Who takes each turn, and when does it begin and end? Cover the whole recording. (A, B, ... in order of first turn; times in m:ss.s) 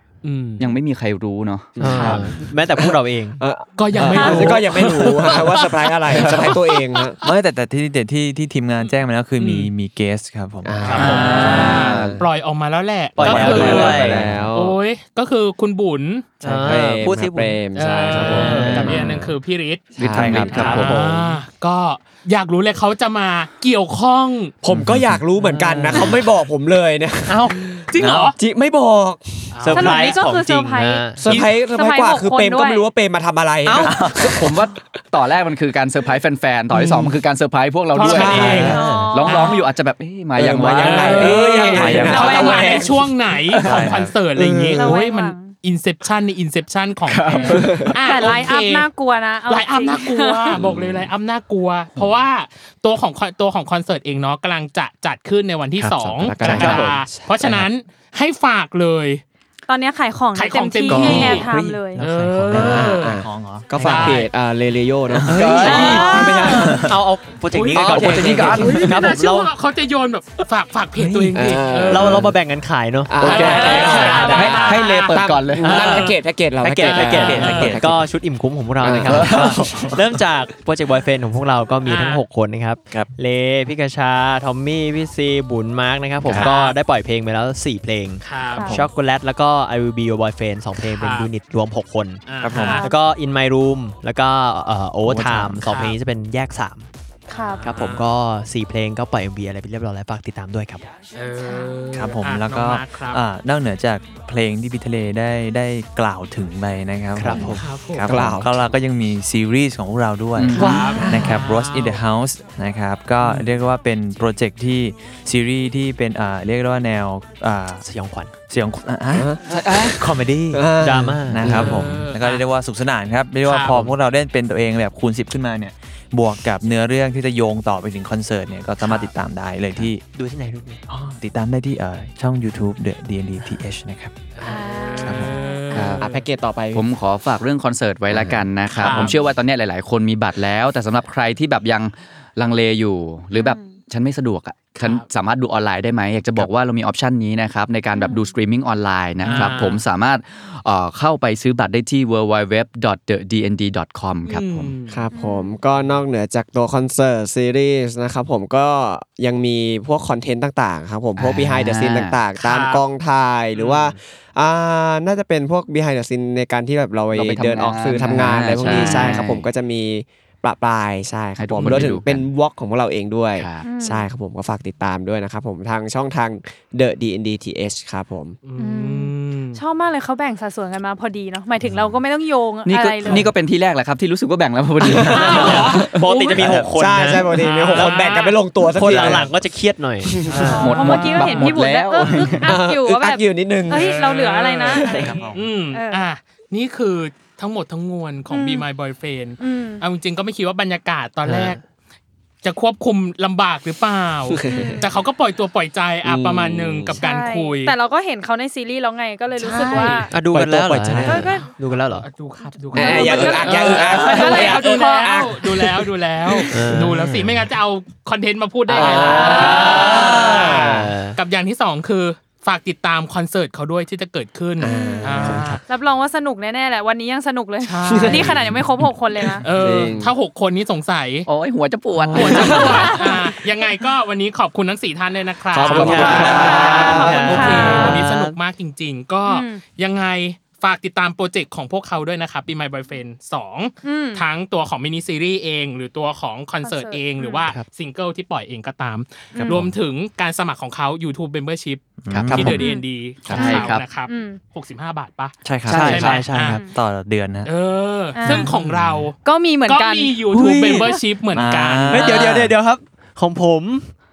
0:00.2-0:00.8 A
0:00.6-0:02.1 B
0:01.8-0:02.4 C
0:01.8-0:03.4 D
0:01.8-0:02.4 A
0:03.4-0:07.2 C
0:03.8-0:07.1 A
0:07.2-0:11.8 E
0:09.4-0:09.7 A
0:10.6-0:12.3 C
0:10.9-0:16.3 A
0:10.9-0:12.2 B
0:13.2-0:14.3 D
0:13.2-0:14.5 E
0:13.3-0:14.8 C
0:16.4-0:19.4 C
0:16.4-0:18.9 D
0:16.6-0:17.1 E
0:17.8-0:24.5 A
0:18.3-0:19.1 E
0:20.0-0:21.0 B
0:20.1-0:20.9 E
0:20.1-0:21.4 C
0:24.6-0:29.7 C
0:24.7-0:26.1 E
0:25.4-0:26.1 D
0:27.3-0:27.6 D
0:27.6-0:28.4 A
0:28.0-0:28.3 E
0:29.5-0:30.2 A
0:29.6-0:31.5 D
0:29.7-0:32.9 F
0:31.2-0:34.7 C
0:33.6-0:34.0 D
0:33.8-0:34.4 E
0:34.2-0:41.4 B
0:36.7-0:37.1 A
0:38.0-0:39.6 A
0:38.0-0:38.7 C
0:38.0-0:39.1 D
0:38.4-0:38.8 E
0:38.7-0:39.7 F
0:40.4-0:43.0 C
0:40.8-0:48.9 A
0:41.7-0:42.4 E
0:42.1-0:42.9 F
0:43.5-0:43.9 B
0:43.6-0:44.1 E
0:44.4-0:45.0 C
0:44.7-0:45.6 F
0:47.1-0:48.0 B
0:47.3-0:50.6 F
0:47.5-0:48.0 C
0:49.5-0:59.2 A
0:50.5-0:51.1 B
0:56.1-0:57.5 C
0:56.4-0:57.0 D
0:59.7-1:02.0 F
1:00.3-1:01.5 A
1:00.9-1:01.4 C
1:01.0-1:03.0 D
1:02.0-1:03.2 A
1:02.0-1:04.1 E
1:02.6-1:06.8 C
1:03.8-1:04.3 A
1:05.1-1:05.5 E
1:05.3-1:06.3 B
1:05.3-1:09.5 D
1:05.6-1:06.9 F
1:07.5-1:12.3 A
1:07.7-1:08.8 B
1:11.0-1:14.5 D
1:11.3-1:12.3 C
1:13.1-1:18.1 C
1:13.2-1:16.2 A
1:13.6-1:16.0 B
1:15.6-1:36.9 D
1:16.8-1:17.8 A
1:17.0-1:17.8 E
1:18.8-1:19.5 C
1:19.1-1:20.2 E
1:21.8-1:22.2 A
1:26.3-1:26.5 E
1:26.3-1:26.8 A
1:28.2-1:28.7 A
1:28.6-1:28.8 F
1:30.8-1:31.3 A
1:32.3-1:32.9 A
1:32.4-1:32.8 E
1:32.6-1:33.0 F
1:35.0-1:35.7 E
1:35.6-1:36.0 A
1:37.3-1:37.7 F
1:37.6-1:38.0 A
1:37.6-1:40.9 D
1:41.1-1:43.2 A
1:41.4-1:42.0 F
1:41.9-1:57.8 E
1:47.2-1:47.7 D
1:47.4-1:48.1 A
1:48.0-1:48.5 C
1:50.4-1:50.9 B
1:50.5-1:52.0 A
1:50.6-1:51.3 D
1:50.7-1:51.1 C
1:53.2-1:53.5 A
1:57.8-1:58.3 D
1:58.5-2:00.6 E
1:59.1-1:59.4 C
1:59.5-2:00.0 B
2:00.0-2:01.6 D
2:00.5-2:01.9 C
2:01.3-2:10.0 E
2:01.5-2:02.4 A
2:03.4-2:03.9 A
2:10.1-2:10.8 D
2:10.9-2:14.4 E
2:14.4-2:15.8 F
2:14.5-2:16.2 A
2:15.0-2:16.0 E
2:15.7-2:16.8 C
2:16.7-2:34.7 B
2:18.1-2:19.1 C
2:18.8-2:19.2 A
2:23.4-2:23.8 F
2:24.8-2:25.1 A
2:27.9-2:28.3 F
2:29.2-2:29.8 A
2:34.3-2:35.0 A
2:34.9-2:58.4 C
2:35.1-2:35.6 F
2:41.2-2:42.2 B
2:42.4-2:42.8 A
2:43.6-2:43.9 A
2:47.1-2:49.5 B
2:48.6-2:49.2 A
2:51.4-2:52.2 B
2:53.4-2:53.6 B
2:53.6-2:54.1 F
2:58.4-2:59.6 A
2:58.6-3:03.3 F
3:02.6-3:06.0 B
3:04.8-3:05.7 C
3:05.1-3:06.6 A
3:05.2-3:08.0 D
3:06.4-3:06.7 E
3:06.8-3:09.3 C
3:07.3-3:08.4 A
3:08.6-3:11.1 D
3:08.8-3:09.3 E
3:10.1-3:10.6 C
3:10.3-3:16.0 F
3:10.6-3:12.5 B
3:10.8-3:11.5 A
3:12.4-3:13.9 C
3:13.7-3:21.6 A
3:14.8-3:15.1 C
3:14.9-3:15.5 E
3:18.3-3:18.7 F
3:19.4-3:19.8 F
3:21.2-3:21.6 D
3:22.4-3:27.7 A
3:24.3-3:24.8 C
3:24.4-3:24.9 F
3:26.0-3:27.0 C
3:27.0-3:30.1 F
3:29.4-3:30.1 A
3:30.1-3:32.1 D
3:30.2-3:31.3 E
3:31.0-3:31.5 F
3:32.0-3:45.6 A
3:32.6-3:35.3 F
3:32.7-3:36.5 C
3:36.5-3:37.0 D
3:36.8-3:37.4 E
3:38.7-3:41.2 D
3:38.7-3:39.7 C
3:38.7-3:40.2 F
3:44.6-3:45.6 C
3:44.7-3:49.5 F
3:45.2-3:45.6 D
3:47.6-3:48.5 A
3:47.9-3:48.4 C
3:49.4-3:51.3 A
3:49.5-3:50.2 C
3:51.3-3:53.0 B
3:52.0-3:52.5 D
3:52.1-4:16.6 A
3:52.6-3:53.3 F
3:55.5-3:57.8 C
3:55.7-3:58.4 D
3:56.0-3:58.1 F
3:59.3-3:59.6 F
4:03.8-4:04.2 F
4:06.6-4:07.5 F
4:09.5-4:09.7 E
4:12.0-4:12.7 E
4:12.1-4:12.6 D
4:12.4-4:12.8 F
4:13.2-4:13.6 E
4:13.3-4:13.9 B
4:14.0-4:14.4 F
4:15.4-4:16.0 E
4:15.7-4:16.2 B
4:15.7-4:16.6 D
4:16.4-4:16.8 F
4:16.7-4:17.5 E
4:17.4-4:22.4 A
4:18.2-4:18.5 F
4:18.3-4:19.1 E
4:19.2-4:21.0 F
4:20.3-4:20.9 D
4:21.3-4:22.5 E
4:21.9-4:23.9 D